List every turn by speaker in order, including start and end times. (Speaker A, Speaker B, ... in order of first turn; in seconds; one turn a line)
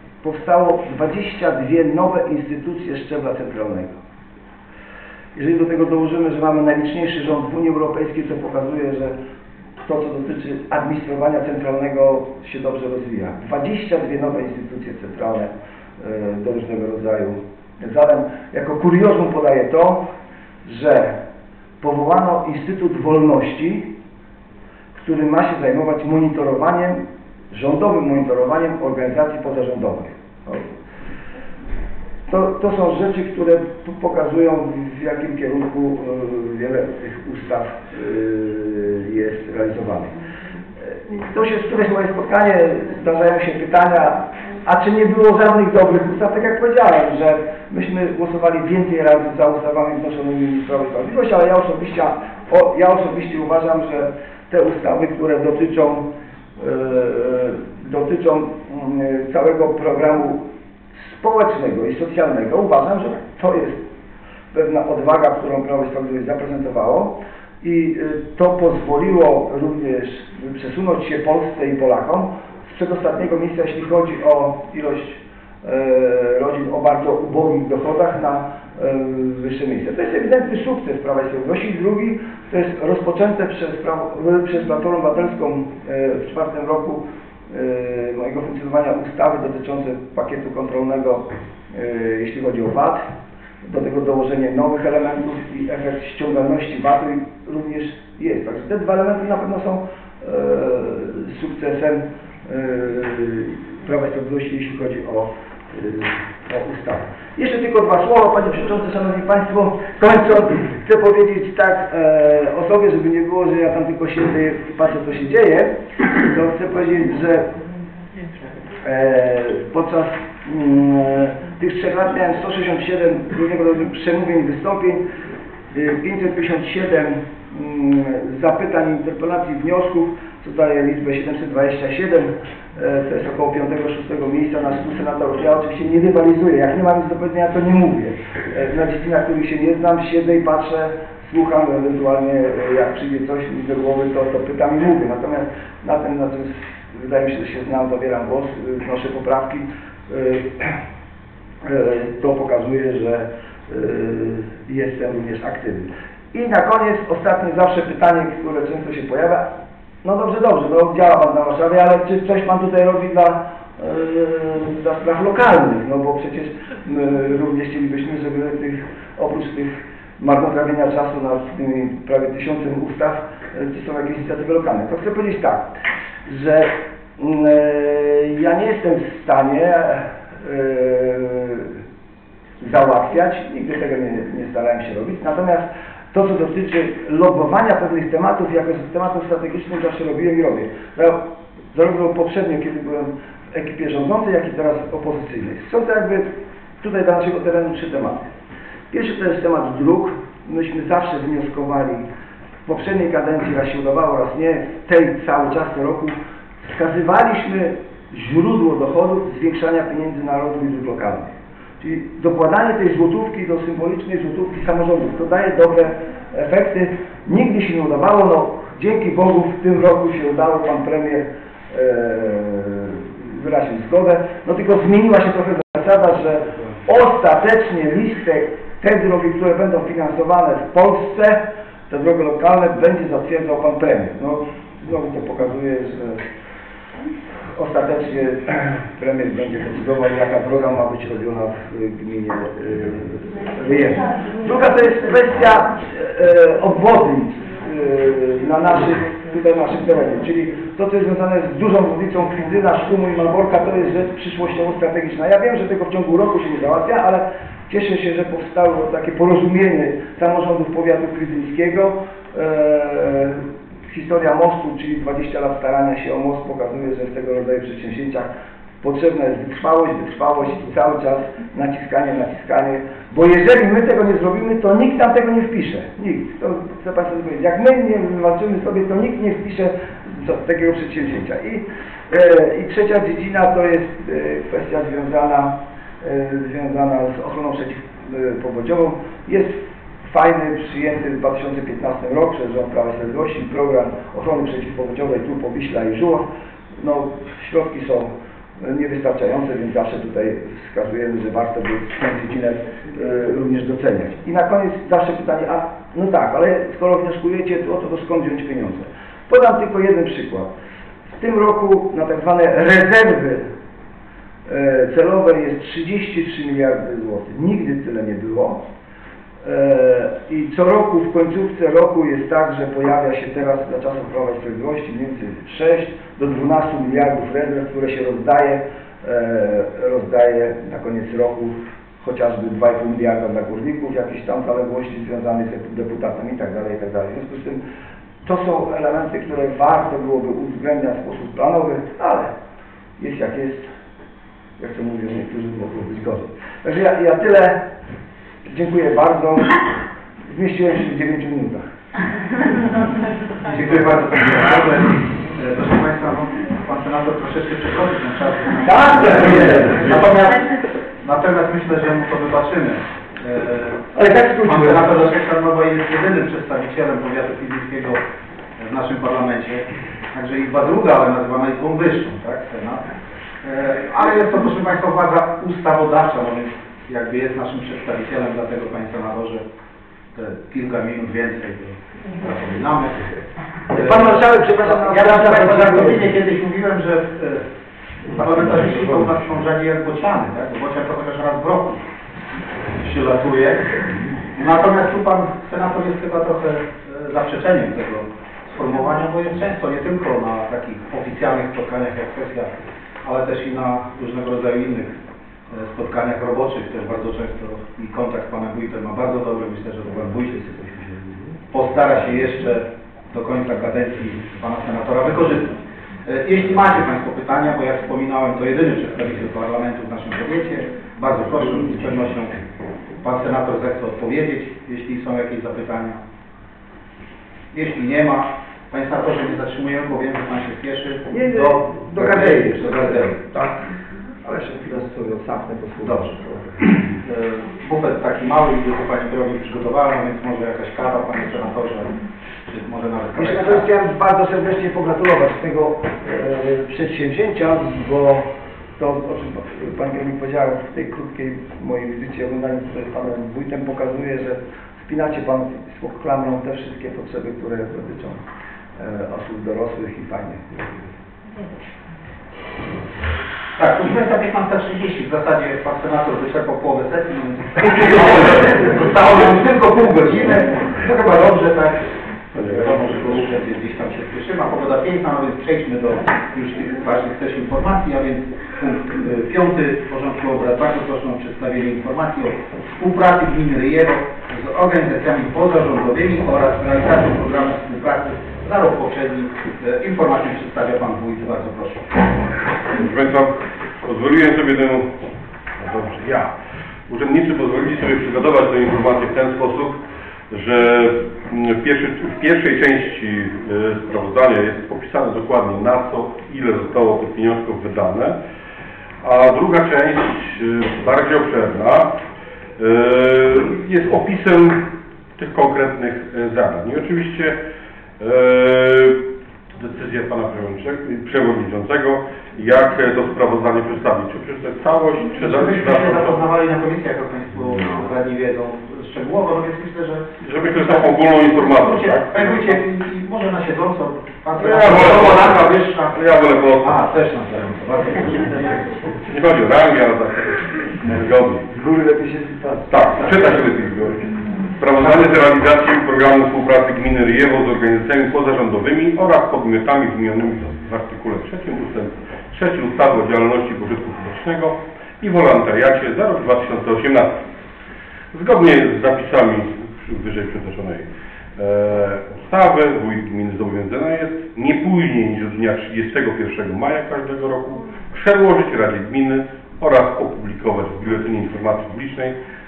Speaker A: 0.2-4.0
Speaker A: 5.3-9.1
Speaker A: 9.8-20.1
Speaker A: 20.6-21.2
Speaker A: 21.8-23.9
Speaker A: 24.9-30.6
Speaker A: 32.3-40.2
Speaker A: 40.8-63.8
Speaker A: 64.5-93.1
Speaker A: 93.6-117.5
Speaker A: 118.8-125.0
Speaker A: 125.7-150.8
Speaker A: 151.6-159.5
Speaker A: 160.0-181.8
Speaker A: 182.6-191.2
Speaker A: 191.7-198.3
Speaker A: 198.9-202.1
Speaker A: 202.7-236.2
Speaker A: 237.5-310.5
Speaker A: 311.1-313.5
Speaker A: 314.4-318.6
Speaker A: 319.4-337.6
Speaker A: 338.2-342.3
Speaker A: 343.0-343.7
Speaker A: 344.6-347.6
Speaker A: 348.4-349.6
Speaker A: 350.2-351.7
Speaker B: 353.4-360.5
Speaker A: 358.6-360.2
Speaker C: 359.1-360.2
Speaker B: 361.0-368.0
Speaker A: 363.9-364.9
Speaker B: 368.6-372.8
Speaker B: 373.4-379.4
Speaker B: 380.1-387.4
Speaker A: 383.7-386.1
Speaker B: 388.1-391.8
Speaker B: 392.8-393.8
Speaker B: 394.3-402.5
Speaker B: 403.0-404.9
Speaker B: 405.5-410.4
Speaker A: 410.4-411.0
Speaker B: 411.5-422.4
Speaker B: 423.0-426.0
Speaker B: 427.5-433.3
Speaker A: 431.1-433.6
Speaker A: 434.2-436.5
Speaker B: 435.8-441.9
Speaker B: 442.4-443.7
Speaker A: 443.1-458.2
Speaker A: 458.8-460.7
Speaker B: 463.6-492.1
Speaker A: 467.8-469.3
Speaker C: 472.4-473.2
Speaker C: 492.7-494.9
Speaker C: 495.6-496.3
Speaker C: 496.9-508.1
Speaker C: 509.0-511.9
Speaker C: 512.6-514.6
Speaker C: 515.2-517.4
Speaker C: 518.0-519.0
Speaker C: 519.5-526.3
Speaker B: 525.1-536.0
Speaker C: 530.2-532.5
Speaker C: 534.4-536.8
Speaker B: 536.6-538.8
Speaker C: 539.0-541.5
Speaker A: 541.5-542.7
Speaker C: 542.7-557.2
Speaker C: 558.1-560.8
Speaker C: 561.4-572.1